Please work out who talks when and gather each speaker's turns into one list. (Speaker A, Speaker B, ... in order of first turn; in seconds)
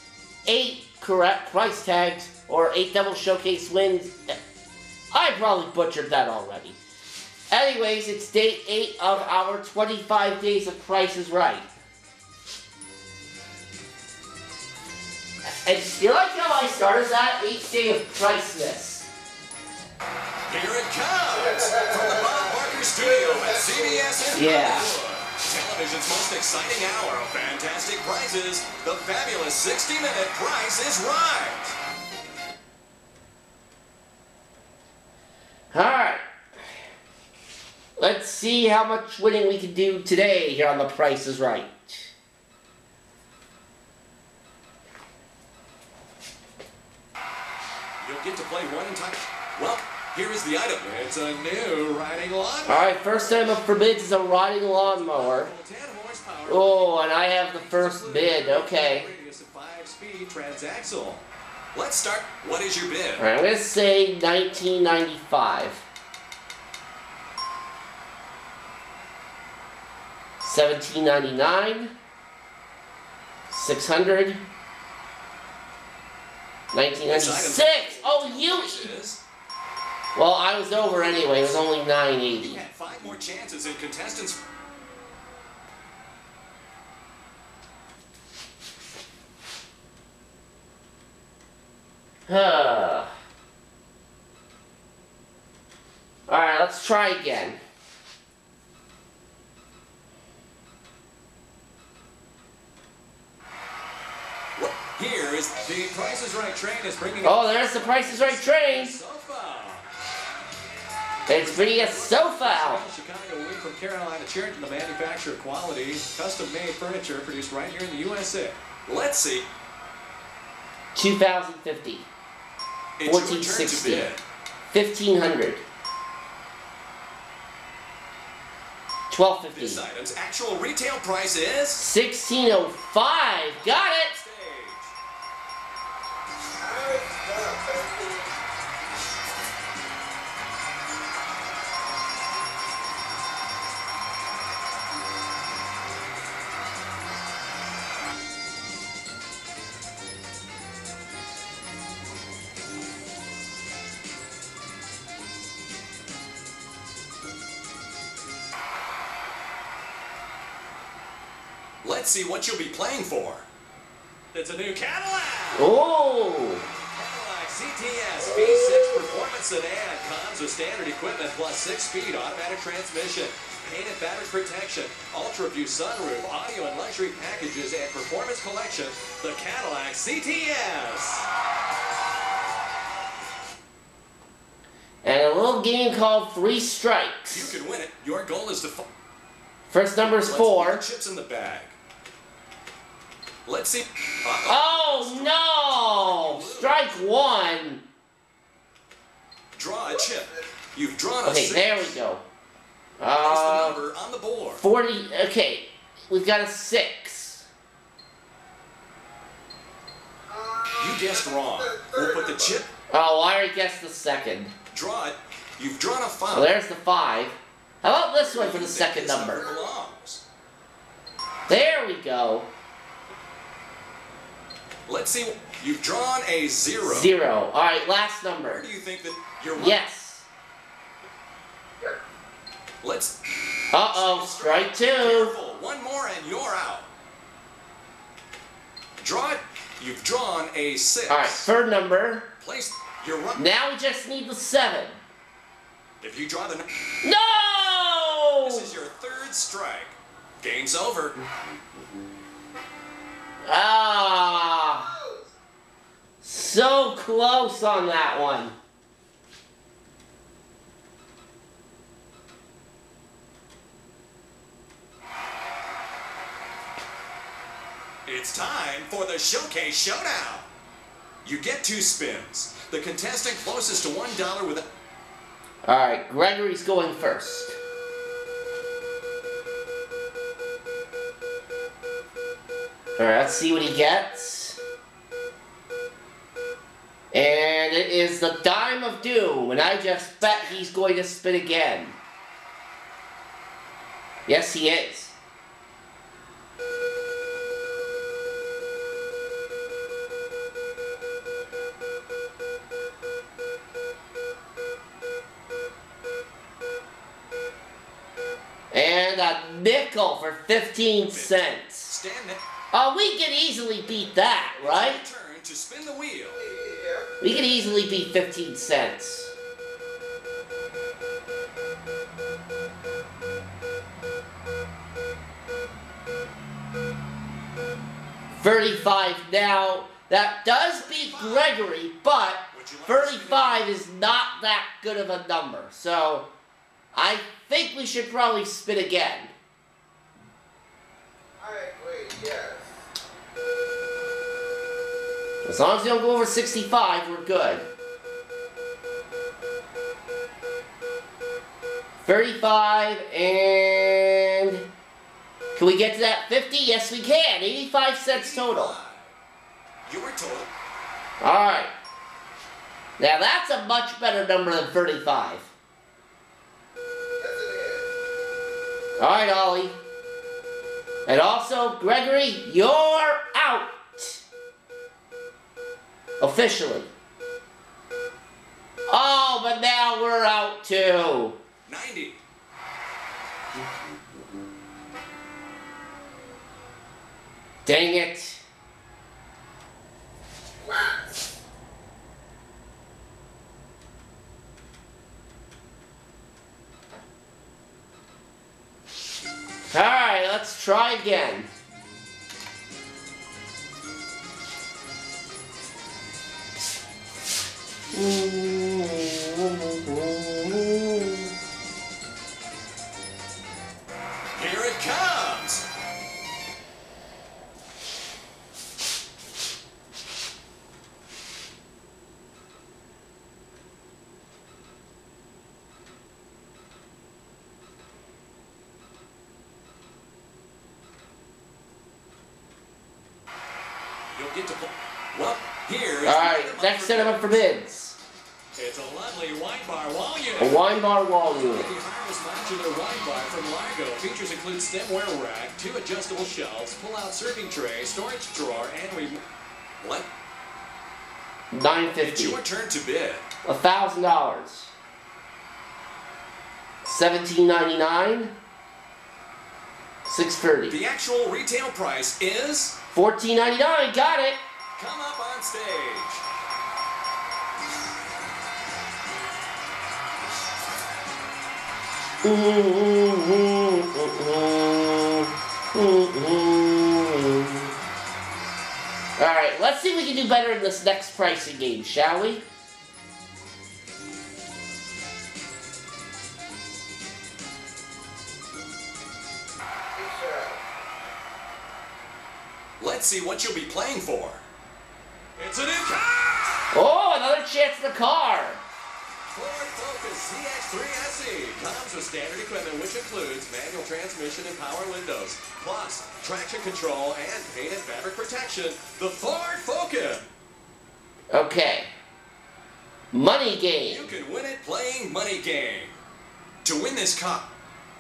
Speaker A: 0.5-4.4, 5.1-6.8, 7.5-11.7, 15.7-19.1, 24.3-24.9, 35.7-36.2, 38.0-42.1, 52.7-55.5, 56.5-59.1, 63.2-65.8, 70.4-71.9, 73.5-74.4, 76.7-78.9, 80.2-82.6, 92.3-93.1, 96.3-97.6, 107.2-109.0, 111.3-112.8, 121.0-122.1, 123.0-124.1, 124.7-125.6, 129.1-129.8, 131.8-134.1, 165.6-166.7, 185.0-187.6, 189.7-190.8, 194.5-197.8, 201.2-202.2, 203.0-203.8, 204.6-207.5, 212.9-214.5, 216.3-219.5, 221.5-222.5, 226.8-228.7, 229.6-230.3, 233.7-235.3, 241.1-242.3, 243.4-245.0, 247.0-248.7, 253.5-254.9, 256.2-258.5, 275.7-277.6, 283.0-284.6, 287.1-292.0, 294.3-295.2, 308.7-311.9, 312.7-315.0, 317.2-319.3, 328.3-336.3, 336.9-339.3, 345.5-347.7, 352.0-354.6, 355.6-358.8, 361.2-361.7, 363.0-365.5, 369.0-369.8, 371.1-374.2, 376.2-376.9, 378.9-381.4, 387.7-388.4, 399.7-401.5, 407.9-411.3, 436.0-438.0, 440.4-441.7, 451.5-452.4, 453.4-454.7, 456.8-458.4, 460.1-460.8, 462.9-464.4, 472.2-477.7, 479.2-482.4, 496.7-498.6, 511.3-511.9, 513.1-514.1
Speaker B: 20.5-31.8, 48.0-53.6, 54.8-63.3, 77.0-79.2, 80.8-81.6, 82.4-84.4, 104.6-109.9, 111.3-119.4, 123.0-124.2, 129.5-131.8, 133.6-134.9, 161.8-163.5, 164.3-165.7, 166.9-181.3, 187.3-188.8, 190.1-191.8, 193.5-197.0, 199.6-201.9, 203.2-204.6, 210.8-212.7, 214.7-216.5, 218.2-220.2, 224.9-227.1, 228.4-229.8, 232.8-233.1, 233.9-236.9, 239.0-241.5, 242.4-243.5, 246.0-246.6, 248.4-251.2, 268.1-270.5, 271.2-274.6, 311.1-312.4, 314.6-316.4, 330.8-331.6, 332.5-333.7, 358.1-359.1, 359.9-360.5, 381.7-382.2, 414.4-415.6, 434.1-437.4, 438.6-440.6, 441.4-449.2, 449.8-450.1, 452.0-453.3, 460.7-462.7, 464.8-466.2, 492.8-494.5, 495.4-496.6, 499.3-510.2, 513.9-516.0, 516.6-517.5
Speaker C: 21.3-24.2, 136.6-138.3, 168.2-169.1, 199.8-200.5, 210.3-212.6, 219.3-219.7, 254.4-255.3, 313.9-314.1, 316.4-317.5, 341.4-342.8, 367.2-367.9, 390.6-391.2, 489.9-490.6